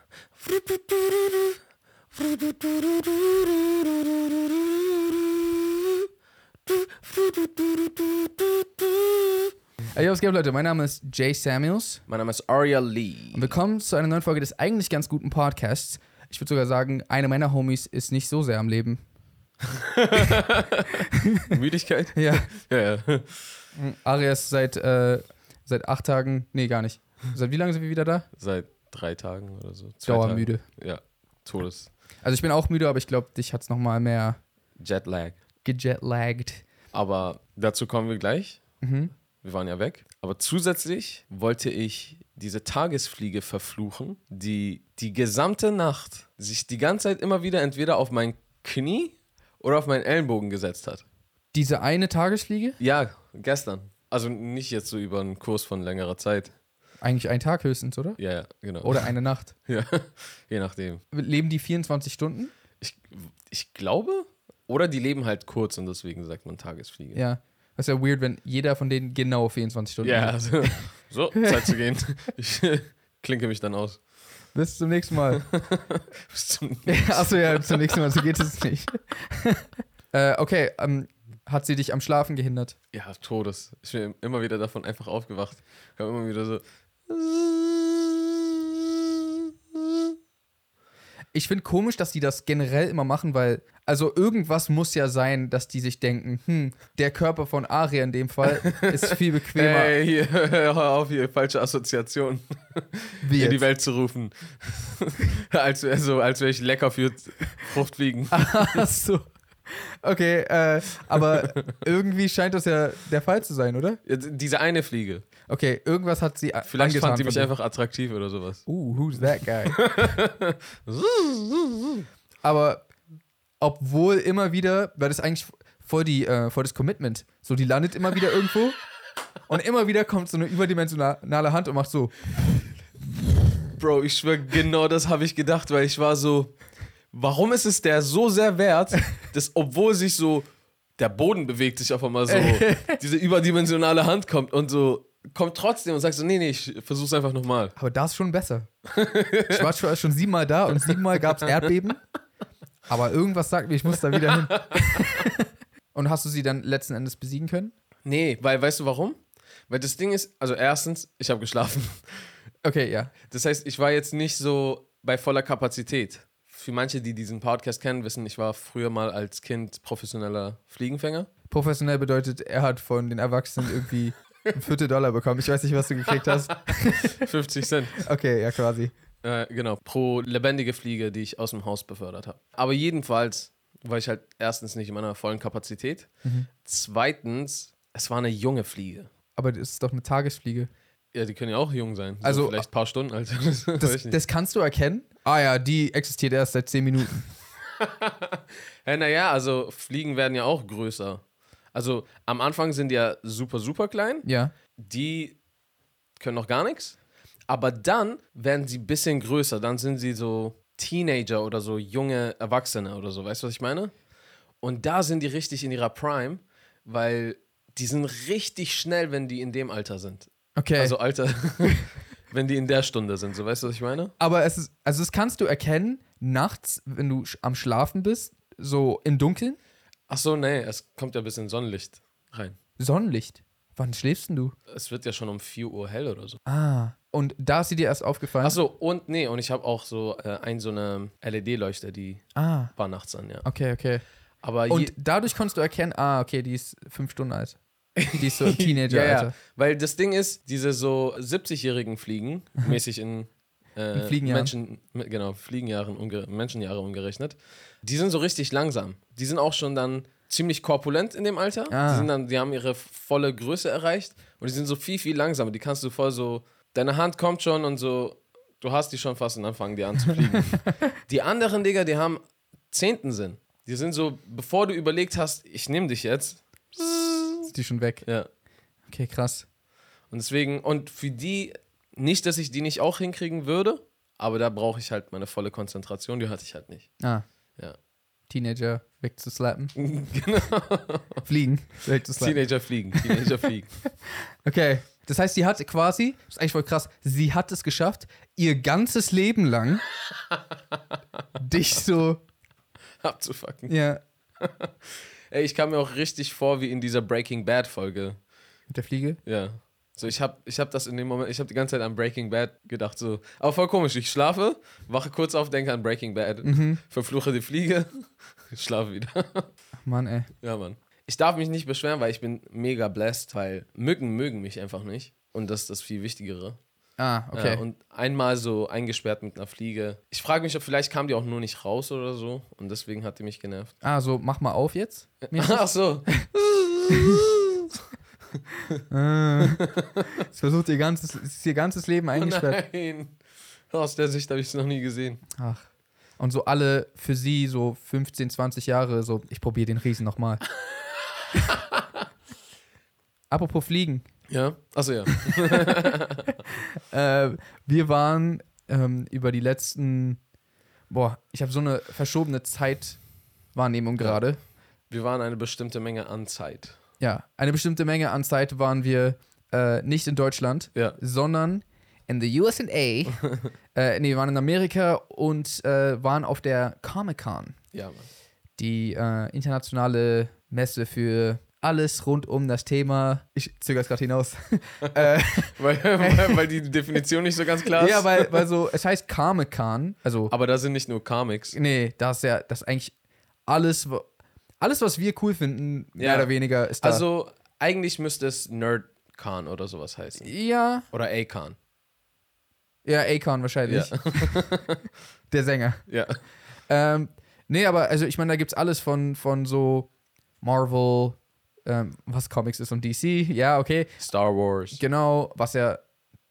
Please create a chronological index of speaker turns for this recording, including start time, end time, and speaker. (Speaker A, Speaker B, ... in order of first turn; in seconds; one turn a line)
Speaker A: 0.4-1.5
Speaker A: 2.1-5.4
Speaker A: 6.7-9.1
Speaker B: 9.9-12.0
Speaker A: 12.1-13.5
Speaker B: 13.3-19.0
Speaker A: 19.7-23.5
Speaker B: 21.1-21.5
Speaker B: 22.1-22.5
Speaker B: 23.8-28.2
Speaker A: 28.4-31.9
Speaker B: 30.1-30.6
Speaker B: 32.2-34.4
Speaker A: 34.8-35.4
Speaker B: 35.6-36.6
Speaker A: 36.9-38.6
Speaker B: 38.8-39.1
Speaker A: 39.4-51.0
Speaker B: 51.5-52.8
Speaker A: 52.8-56.5
Speaker B: 57.0-58.2
Speaker A: 58.2-59.1
Speaker B: 58.8-59.5
Speaker A: 59.7-61.0
Speaker B: 61.1-62.5
Speaker A: 62.8-67.2
Speaker B: 67.1-70.8
Speaker A: 70.0-74.0
Speaker B: 71.4-71.7
Speaker B: 74.5-75.4
Speaker A: 75.3-78.0
Speaker B: 76.9-82.8
Speaker A: 82.9-88.4
Speaker B: 91.3-100.0
Speaker A: 98.6-108.8
Speaker B: 103.2-103.6
Speaker B: 108.3-114.0
Speaker A: 111.5-111.7
Speaker A: 114.0-115.2
Speaker B: 115.5-117.5
Speaker A: 116.7-118.7
Speaker B: 118.7-119.9
Speaker A: 119.7-122.0
Speaker B: 122.4-122.9
Speaker B: 123.6-128.8
Speaker B: 129.5-132.1
Speaker A: 133.8-136.6
Speaker A: 137.1-140.5
Speaker A: 141.0-147.7
Speaker B: 142.3-143.0
Speaker B: 147.8-148.7
Speaker A: 148.9-149.7
Speaker B: 149.5-152.0
Speaker A: 150.9-151.6
Speaker B: 152.9-157.7
Speaker A: 154.2-155.2
Speaker A: 158.1-159.2
Speaker A: 159.7-162.2
Speaker B: 162.6-163.1
Speaker A: 163.3-171.3
Speaker B: 171.5-177.2
Speaker A: 177.2-178.1
Speaker B: 178.0-178.9
Speaker A: 179.2-186.1
Speaker A: 186.6-189.1
Speaker B: 189.3-190.7
Speaker A: 191.1-194.2
Speaker B: 192.2-192.6
Speaker B: 193.8-197.3
Speaker A: 197.8-201.2
Speaker A: 201.7-205.4
Speaker B: 204.2-204.5
Speaker A: 206.2-206.9
Speaker A: 207.5-213.9
Speaker A: 214.6-224.1
Speaker B: 220.6-220.9
Speaker B: 224.2-229.6
Speaker A: 230.1-232.6
Speaker B: 232.8-234.5
Speaker A: 234.7-236.4
Speaker B: 236.4-238.6
Speaker A: 238.4-243.4
Speaker B: 242.3-242.7
Speaker B: 243.4-244.0
Speaker A: 244.4-244.9
Speaker B: 244.7-249.3
Speaker A: 248.0-277.5
Speaker B: 253.9-254.5
Speaker B: 261.7-262.1
Speaker B: 270.1-270.9
Speaker B: 277.5-278.0
Speaker B: 278.9-279.5
Speaker A: 280.1-286.9
Speaker B: 287.0-287.2
Speaker B: 288.3-289.7
Speaker A: 289.8-291.2
Speaker B: 291.2-292.4
Speaker A: 292.2-293.8
Speaker B: 292.9-293.3
Speaker B: 294.0-299.8
Speaker A: 300.3-300.8
Speaker B: 301.4-302.2
Speaker A: 303.0-303.7
Speaker B: 303.7-304.0
Speaker A: 304.4-308.2
Speaker B: 308.7-309.2
Speaker A: 309.2-319.5
Speaker B: 316.4-316.8
Speaker B: 319.8-320.3
Speaker A: 320.4-326.6
Speaker B: 327.0-327.6
Speaker A: 327.3-333.7
Speaker B: 333.8-336.2
Speaker A: 335.2-337.6
Speaker B: 336.9-337.2
Speaker B: 338.9-339.7
Speaker A: 339.4-340.1
Speaker B: 340.2-342.6
Speaker A: 342.1-343.2
Speaker A: 343.7-345.2
Speaker B: 345.4-345.6
Speaker B: 346.2-350.4
Speaker B: 353.3-354.1
Speaker A: 354.3-356.3
Speaker B: 356.6-360.2
Speaker B: 360.9-363.0
Speaker B: 363.5-364.4
Speaker A: 364.9-366.8
Speaker B: 367.0-373.2
Speaker A: 373.2-373.4
Speaker B: 373.7-377.6
Speaker A: 377.7-378.1
Speaker B: 378.6-386.4
Speaker A: 385.6-388.3
Speaker B: 387.7-390.3
Speaker A: 390.3-391.6
Speaker B: 391.5-392.9
Speaker B: 393.5-394.1
Speaker B: 394.6-397.0
Speaker A: 396.0-400.3
Speaker B: 400.2-400.8
Speaker A: 400.9-401.6
Speaker B: 402.8-404.5
Speaker A: 403.7-404.8
Speaker B: 405.3-405.9
Speaker A: 405.9-406.2
Speaker B: 406.7-409.9
Speaker B: 410.4-414.0
Speaker A: 414.0-414.8
Speaker B: 414.7-415.8